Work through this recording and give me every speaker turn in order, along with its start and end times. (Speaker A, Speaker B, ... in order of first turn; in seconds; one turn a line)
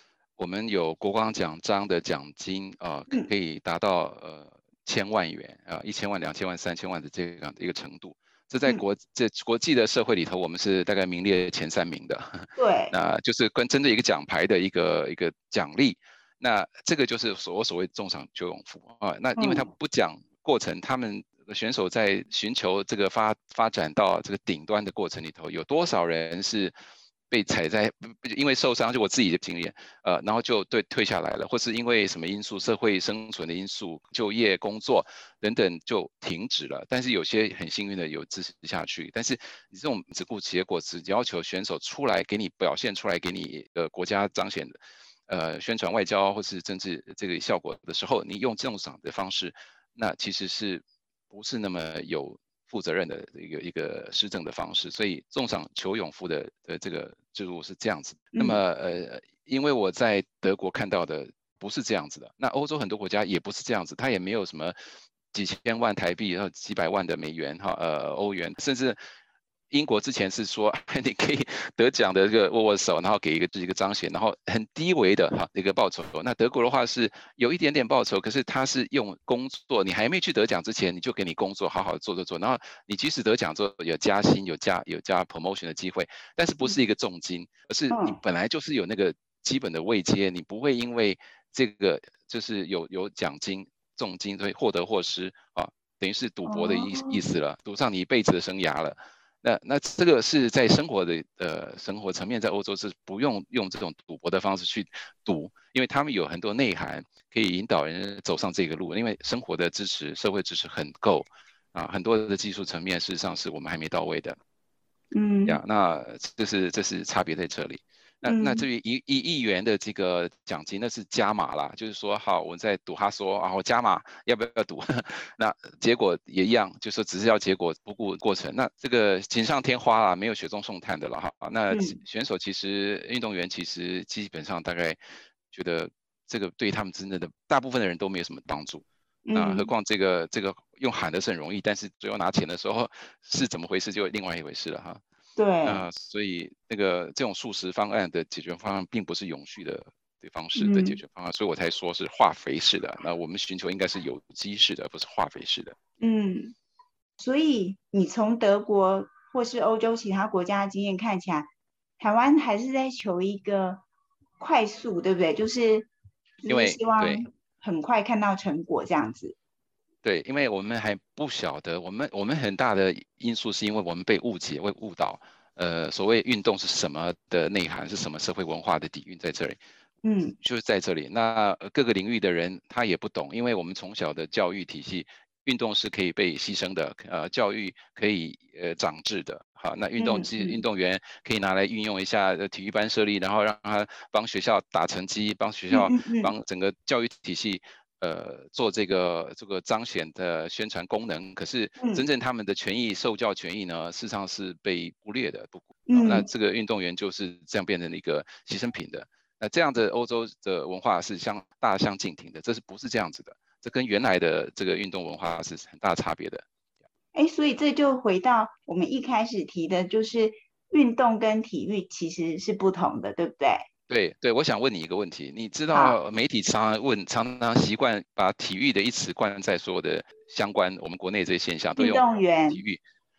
Speaker A: 0.4-26.7
Speaker B: 12.6-12.9
Speaker B: 19.4-19.7
Speaker A: 27.3-44.7
Speaker A: 45.3-64.7
Speaker B: 58.3-58.6
Speaker A: 65.3-69.0
Speaker A: 69.7-114.4
Speaker B: 87.9-88.2
Speaker B: 96.4-97.2
Speaker B: 115.1-115.6
Speaker A: 115.5-135.0
Speaker B: 118.2-118.7
Speaker B: 131.7-132.0
Speaker A: 135.5-145.0
Speaker B: 139.3-139.7
Speaker B: 145.3-145.8
Speaker A: 145.6-155.8
Speaker B: 150.6-151.0
Speaker B: 156.0-156.5
Speaker B: 157.2-161.5
Speaker B: 162.0-163.8
Speaker B: 164.4-165.9
Speaker B: 166.4-169.3
Speaker A: 166.5-167.2
Speaker A: 170.0-179.6
Speaker B: 180.0-180.3
Speaker A: 180.4-216.4
Speaker B: 190.0-190.6
Speaker B: 195.7-196.3
Speaker B: 201.8-202.0
Speaker B: 205.9-206.3
Speaker B: 217.1-223.6
Speaker A: 223.9-232.8
Speaker B: 225.7-226.0
Speaker B: 231.8-232.6